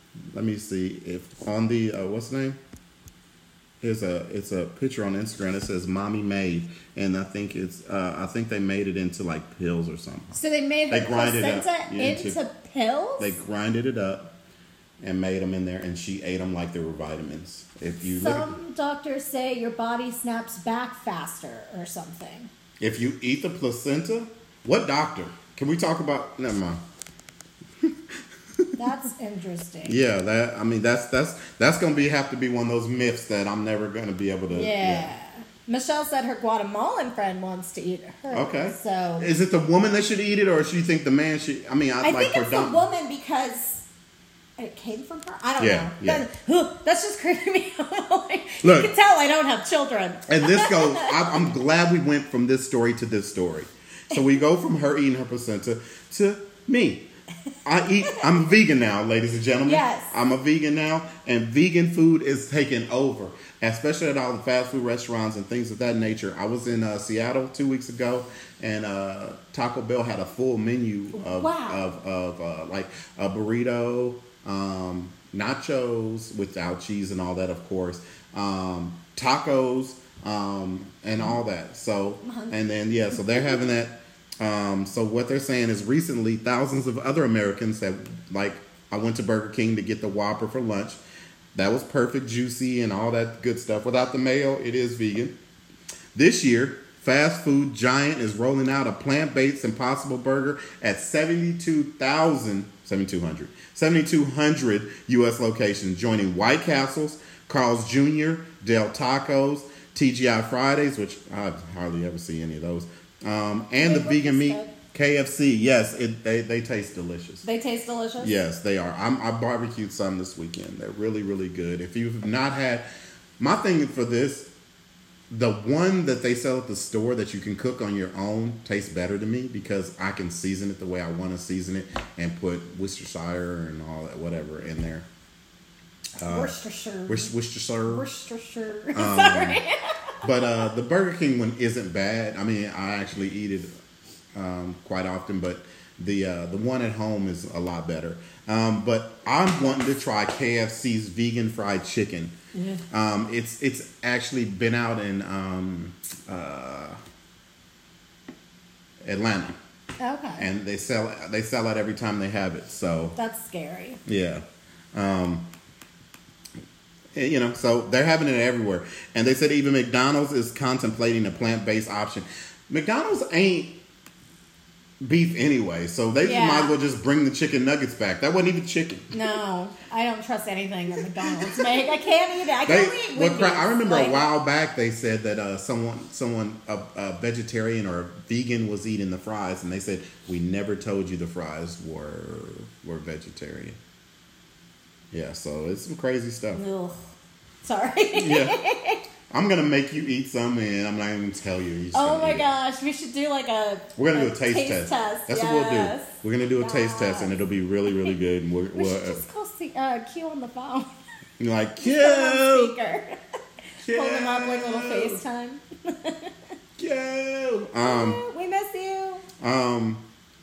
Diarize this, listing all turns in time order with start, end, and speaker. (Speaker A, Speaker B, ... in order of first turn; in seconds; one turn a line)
Speaker A: 0.3-2.6
Speaker A: 3.8-10.3
Speaker B: 10.3-13.3
Speaker A: 10.9-12.4
Speaker A: 13.2-14.3
Speaker A: 15.0-18.5
Speaker B: 18.1-22.5
Speaker A: 22.8-26.8
Speaker B: 28.8-30.0
Speaker A: 29.9-35.1
Speaker B: 34.5-39.3
Speaker A: 38.3-42.8
Speaker B: 42.0-43.9
Speaker B: 44.6-51.1
Speaker A: 45.6-46.2
Speaker A: 48.6-48.9
Speaker A: 50.3-57.1
Speaker A: 57.6-91.0
Speaker B: 59.6-60.1
Speaker B: 71.1-71.8
Speaker B: 82.2-82.6
Speaker B: 83.1-83.6
Speaker A: 91.5-95.3
Speaker A: 96.1-117.4
Speaker B: 113.8-114.7
Speaker B: 117.4-118.3
Speaker A: 118.2-122.8
Speaker A: 123.4-124.5
Speaker A: 125.3-135.1
Speaker B: 136.2-137.3
Speaker A: 136.2-136.5
Speaker A: 137.1-138.1
Speaker B: 137.9-140.7
Speaker A: 138.9-139.6
Speaker A: 140.2-143.7
Speaker A: 144.3-152.3
Speaker B: 152.5-152.8
Speaker A: 152.9-157.0
Speaker A: 159.0-159.6
Speaker B: 160.0-160.5
Speaker A: 160.4-163.1
Speaker B: 163.2-164.0
Speaker A: 164.1-165.4
Speaker A: 167.1-173.8
Speaker A: 175.0-179.1
Speaker B: 176.2-176.7
Speaker B: 179.1-184.2
Speaker A: 181.3-181.6
Speaker A: 182.6-193.8
Speaker A: 195.1-196.6
Speaker B: 196.5-197.0
Speaker B: 197.6-199.0
Speaker A: 198.1-198.6
Speaker A: 199.3-202.5
Speaker B: 201.9-207.4
Speaker A: 203.9-209.2
Speaker B: 207.9-208.1
Speaker B: 208.7-210.9
Speaker A: 211.4-212.7
Speaker B: 211.8-213.2
Speaker A: 213.8-215.2
Speaker B: 213.9-216.3
Speaker A: 216.8-218.2
Speaker B: 217.8-219.2
Speaker A: 219.4-220.0